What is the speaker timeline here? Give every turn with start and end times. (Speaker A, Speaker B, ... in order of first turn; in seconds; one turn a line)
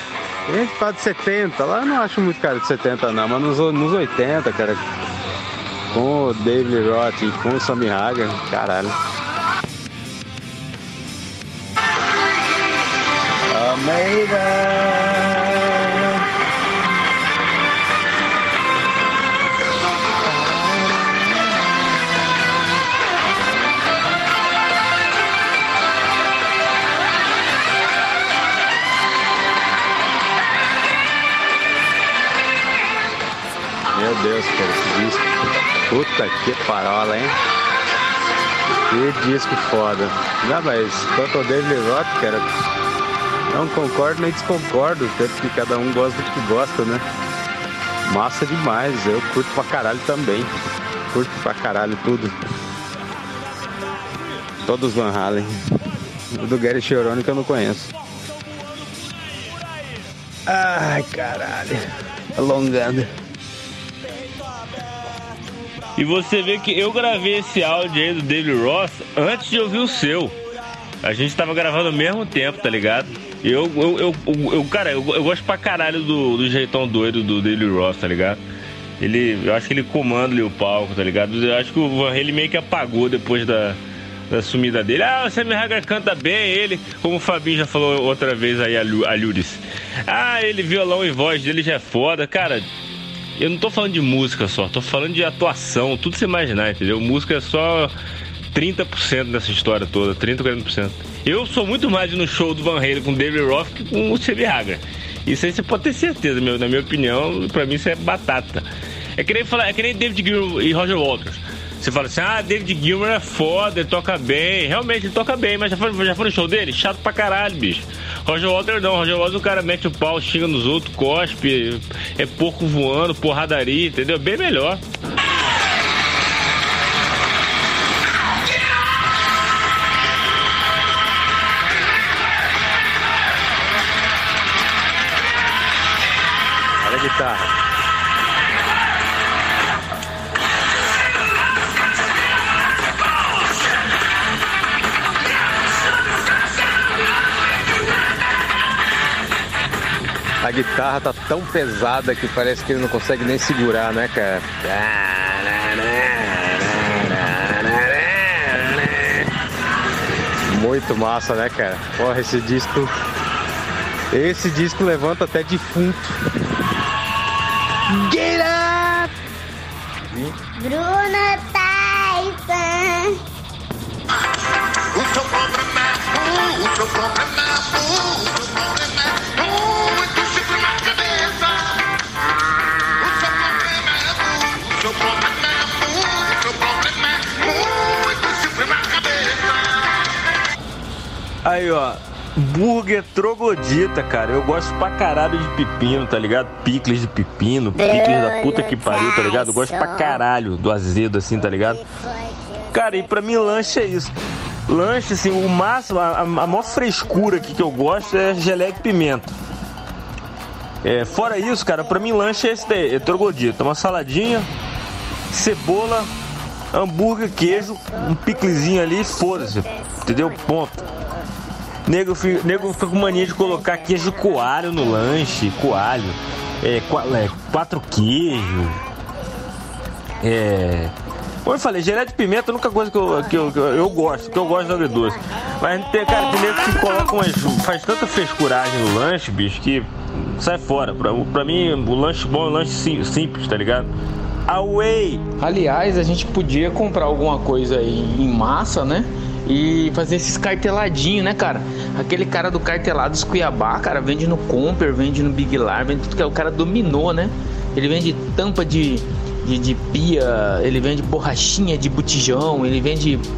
Speaker A: 0.5-4.9
Speaker A: 5.9-9.0
Speaker A: 13.5-16.2
Speaker A: 33.9-35.3
Speaker A: 35.9-37.4
Speaker A: 38.9-42.7
Speaker A: 43.5-47.0
Speaker A: 48.0-50.5
Speaker A: 51.1-52.3
Speaker A: 54.6-55.6
Speaker A: 56.3-57.9
Speaker A: 60.5-61.8
Speaker A: 62.3-63.1
Speaker B: 66.0-70.4
Speaker B: 71.0-78.4
Speaker B: 79.0-83.8
Speaker B: 84.3-92.7
Speaker B: 93.4-97.9
Speaker B: 98.5-108.7
Speaker B: 109.2-124.8
Speaker A: 136.8-137.5
Speaker A: 150.4-159.2
Speaker A: 160.5-162.9
Speaker A: 164.1-166.2
Speaker A: 167.9-169.1
Speaker C: 170.6-173.2
Speaker B: 191.4-201.8
Speaker C: 197.8-200.2
Speaker C: 201.7-203.5
Speaker B: 202.7-204.1
Speaker B: 204.7-209.4
Speaker B: 210.8-214.5
Speaker B: 215.3-216.1
Speaker B: 216.7-220.8
Speaker C: 218.2-218.7
Speaker C: 219.2-220.3
Speaker B: 221.9-228.8
Speaker C: 222.3-225.4
Speaker C: 229.1-230.2
Speaker B: 230.2-230.9
Speaker B: 231.4-243.9
Speaker C: 233.5-235.2
Speaker B: 244.5-245.2
Speaker D: 245.4-263.2